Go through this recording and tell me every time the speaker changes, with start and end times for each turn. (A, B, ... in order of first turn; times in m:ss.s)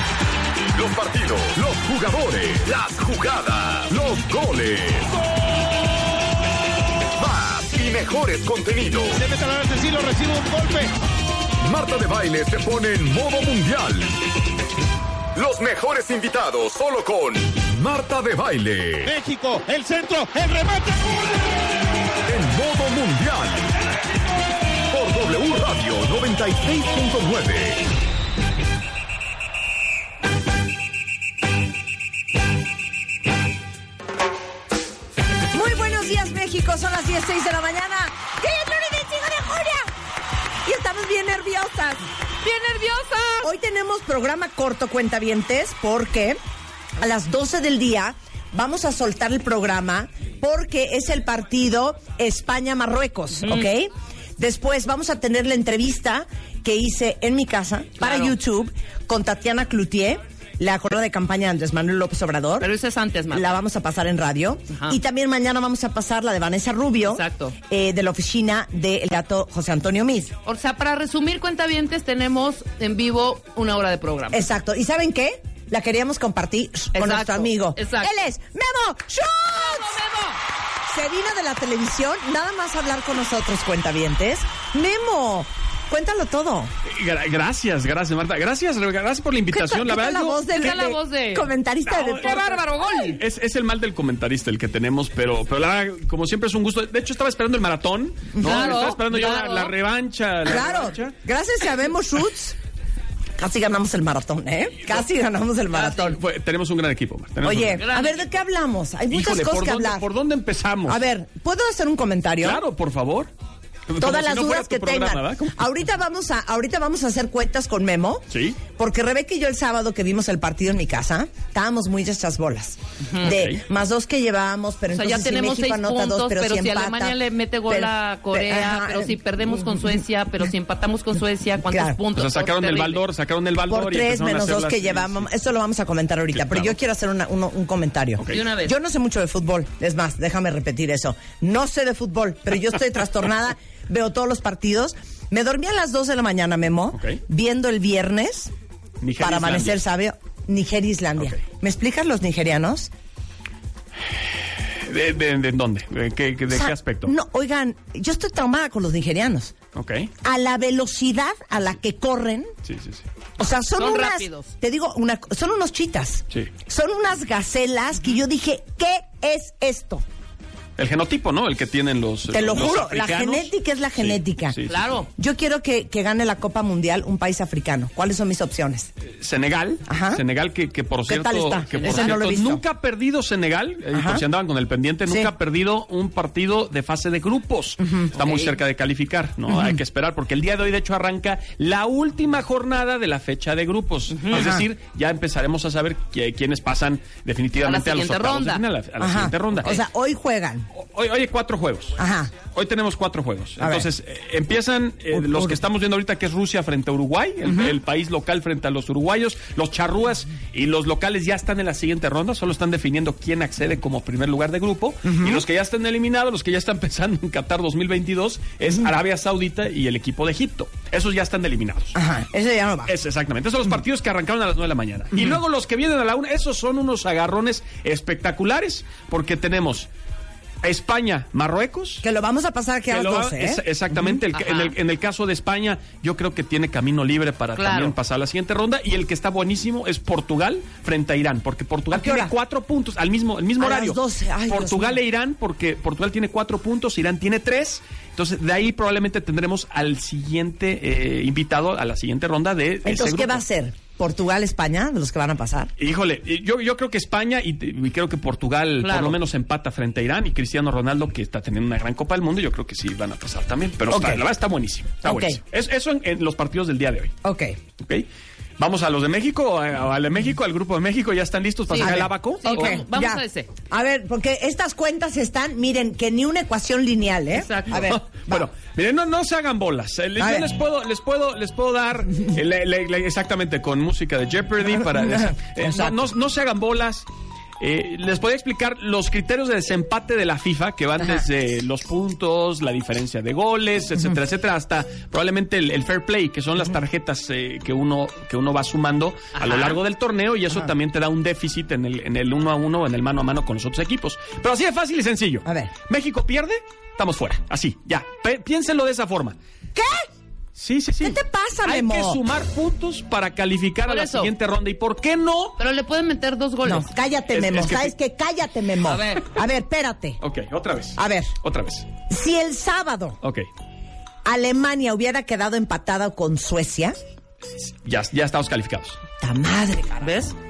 0:00.7-0:05.1 A
0:07.2-0:09.4 A
0:09.2-0:11.0 B
0:11.6-0:14.2 A
0:15.3-0:19.2 A
0:19.1-0:20.9 B
0:22.3-0:23.7 A
0:24.9-0:27.8 A
0:35.5-0:39.9 C
0:40.6-0:42.0 C
0:42.4-0:43.5 D
0:43.4-0:46.4 C
0:47.0-1:02.7 C
0:58.0-0:58.4 D
1:02.6-1:03.5 D
1:03.3-1:10.3 C
1:04.7-1:05.0 D
1:07.0-1:07.5 D
1:10.4-1:14.4 D
1:14.3-1:20.0 C
1:16.9-1:18.2 D
1:19.5-1:20.4 D
1:20.9-1:26.7 C
1:26.8-1:30.4 E
1:29.5-1:32.4 C
1:30.5-1:31.5 D
1:31.8-1:41.1 E
1:32.2-1:33.2 D
1:38.4-1:38.7 C
1:38.4-1:39.7 D
1:40.4-1:42.6 C
1:43.4-1:46.2 C
1:45.7-1:46.1 D
1:46.0-1:47.8 E
1:47.4-1:50.1 C
1:47.7-1:48.2 D
1:49.1-1:51.0 E
1:50.8-1:52.6 C
1:52.4-1:53.3 E
1:53.9-1:55.7 E
1:54.0-2:07.2 C
1:58.3-1:58.6 E
2:03.1-2:03.3 D
2:03.2-2:03.6 E
2:04.9-2:13.0 D
2:07.7-2:10.0 C
2:11.6-2:12.0 C
2:12.1-2:15.3 E
2:13.7-2:28.5 C
2:16.3-2:16.7 E
2:18.3-2:18.7 D
2:26.9-2:27.2 E
2:29.0-2:29.8 E
2:29.2-2:32.9 C
2:34.6-2:37.1 E
2:36.5-2:39.5 C
2:39.7-2:40.1 E
2:40.2-2:42.5 C
2:42.6-2:43.0 E
2:43.4-2:50.0 C
2:43.7-2:44.5 D
2:50.8-2:54.8 E
2:52.3-2:54.6 C
2:54.7-2:55.1 D
2:55.2-2:58.9 C
2:59.0-3:19.8 E
2:59.9-3:00.2 C
3:01.1-3:02.6 C
3:01.7-3:02.2 D
3:03.9-3:04.2 C
3:07.8-3:08.1 C
3:08.1-3:08.5 D
3:09.5-3:09.8 C
3:14.3-3:14.6 C
3:17.6-3:18.6 D
3:19.0-3:20.7 C
3:20.7-3:42.0 E
3:22.0-3:22.3 C
3:23.6-3:23.9 C
3:25.1-3:25.6 C
3:35.0-3:35.4 C
3:41.9-3:42.9 C
3:42.8-3:49.9 E
3:50.6-3:52.0 E
3:52.0-3:53.6 C
3:52.9-4:13.4 E
3:54.3-3:54.7 D
3:57.6-3:58.0 D
4:01.9-4:02.3 C
4:03.6-4:05.0 C
4:12.8-4:15.7 C
4:15.8-4:27.2 E
4:18.8-4:19.2 D
4:23.9-4:24.2 C
4:25.0-4:25.4 C
4:27.2-4:27.6 C
4:27.8-4:28.0 E
4:28.6-4:32.8 E
4:31.7-4:33.5 D
4:31.7-4:38.5 C
4:37.3-4:37.8 D
4:37.7-4:47.1 E
4:40.2-4:40.5 C
4:44.8-4:46.1 C
4:47.6-5:09.4 E
4:59.4-4:59.8 D
5:05.4-5:05.7 C
5:09.7-5:10.1 C
5:10.5-5:15.6 E
5:11.0-5:12.2 C
5:13.8-5:14.3 D
5:15.6-5:16.9 D
5:16.6-5:20.2 C
5:17.3-5:17.9 E
5:18.9-5:19.2 D
5:20.2-5:21.9 E
5:21.0-5:21.3 C
5:22.1-5:23.2 C
5:23.2-5:23.5 E
5:24.2-5:26.9 C
5:27.6-5:29.0 E
5:29.2-5:30.3 C
5:30.0-5:30.3 D